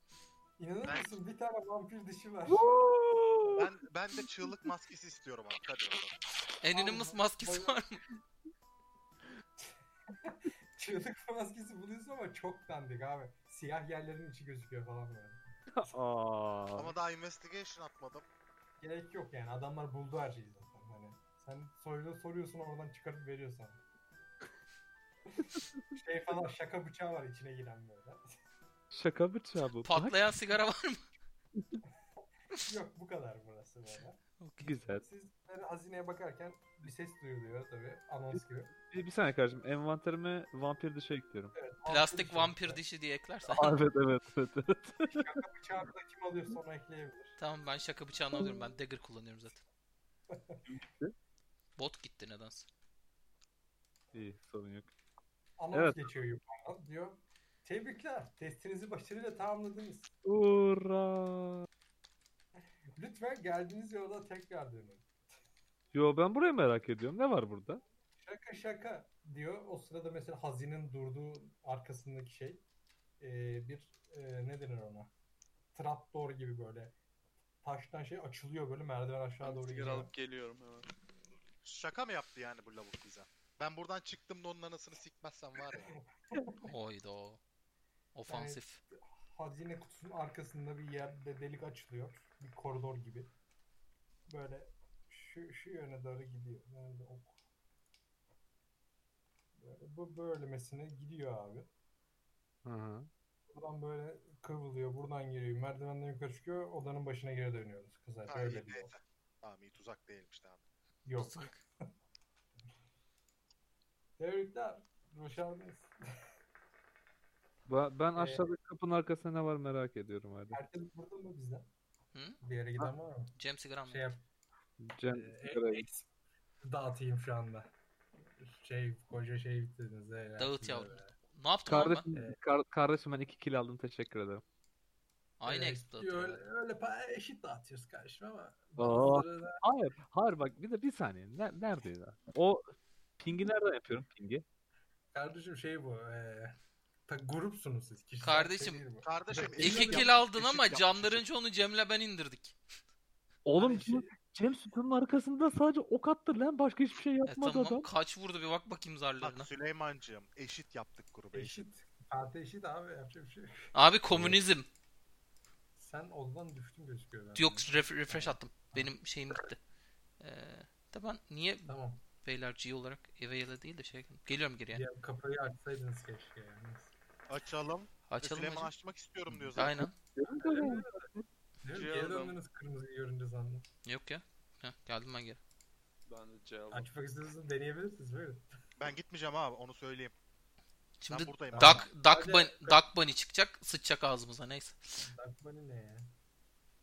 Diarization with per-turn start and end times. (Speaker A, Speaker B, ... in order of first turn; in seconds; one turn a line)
Speaker A: 0.6-2.7
Speaker B: 0.8-1.1
Speaker C: 2.5-3.7
Speaker B: 3.5-6.2
Speaker D: 6.6-8.0
Speaker A: 6.7-7.8
Speaker A: 10.3-15.4
Speaker C: 15.7-16.9
Speaker B: 16.8-18.2
Speaker A: 18.8-23.8
Speaker A: 25.4-28.2
Speaker C: 28.9-30.2
Speaker D: 29.8-31.0
Speaker A: 32.6-34.2
Speaker D: 34.4-34.8
Speaker C: 34.6-35.0
Speaker A: 35.0-38.7
Speaker C: 38.9-41.5
Speaker A: 41.5-42.8
Speaker D: 41.9-43.8
Speaker C: 43.5-45.3
Speaker A: 45.1-47.4
Speaker D: 47.4-49.6
Speaker A: 50.3-50.6
Speaker C: 50.7-51.1
Speaker D: 51.8-52.7
Speaker C: 54.1-54.9
Speaker A: 55.6-60.1
Speaker C: 55.7-56.0
Speaker C: 60.2-61.7
Speaker A: 63.0-65.1
Speaker C: 65.9-67.8
Speaker A: 68.2-72.6
Speaker A: 73.2-75.1
Speaker A: 75.7-77.0
Speaker A: 77.6-80.1
Speaker E: 79.4-80.9
Speaker B: 81.6-85.9
Speaker A: 85.8-86.7
Speaker D: 86.6-87.4
Speaker D: 88.1-88.8
Speaker A: 88.3-93.3
Speaker A: 94.3-97.3
Speaker A: 99.6-101.7
Speaker C: 102.6-103.1
Speaker A: 103.5-108.9
Speaker B: 108.3-110.6
Speaker A: 111.0-111.5
Speaker D: 111.2-111.6
Speaker A: 114.2-115.9
Speaker C: 117.7-120.6
Speaker A: 118.2-118.5
Speaker A: 120.5-121.7
Speaker A: 122.4-123.4
Speaker D: 123.4-124.0
Speaker A: 123.9-124.2
Speaker C: 124.8-125.9
Speaker A: 125.1-126.1
Speaker A: 126.6-127.7
Speaker A: 128.4-131.1
Speaker D: 130.4-132.1
Speaker C: 131.7-134.4
Speaker A: 132.1-132.4
Speaker D: 135.4-136.4
Speaker A: 135.4-139.6
Speaker C: 138.8-142.7
Speaker C: 143.2-144.4
Speaker A: 145.1-146.6
Speaker A: 147.1-150.1
Speaker D: 148.2-148.8
Speaker B: 149.0-151.2
Speaker D: 149.6-152.6
Speaker C: 153.4-157.9
Speaker A: 153.6-154.1
Speaker D: 157.3-159.5
Speaker B: 159.2-161.7
Speaker A: 161.3-163.7
Speaker D: 163.7-164.7
Speaker A: 165.8-168.9
Speaker D: 167.3-169.6
Speaker D: 170.2-174.8
Speaker A: 171.7-172.0
Speaker A: 174.7-176.9
Speaker B: 177.3-179.9
Speaker D: 178.1-178.7
Speaker D: 179.6-179.9
Speaker C: 180.2-181.2
Speaker A: 180.4-181.1
Speaker A: 181.6-183.7
Speaker E: 181.7-182.4
Speaker D: 183.8-185.4
Speaker E: 186.1-186.9
Speaker A: 186.7-188.4
Speaker B: 188.8-190.2
Speaker D: 191.0-195.0
Speaker B: 191.1-191.9
Speaker A: 191.5-192.8
Speaker A: 195.0-196.1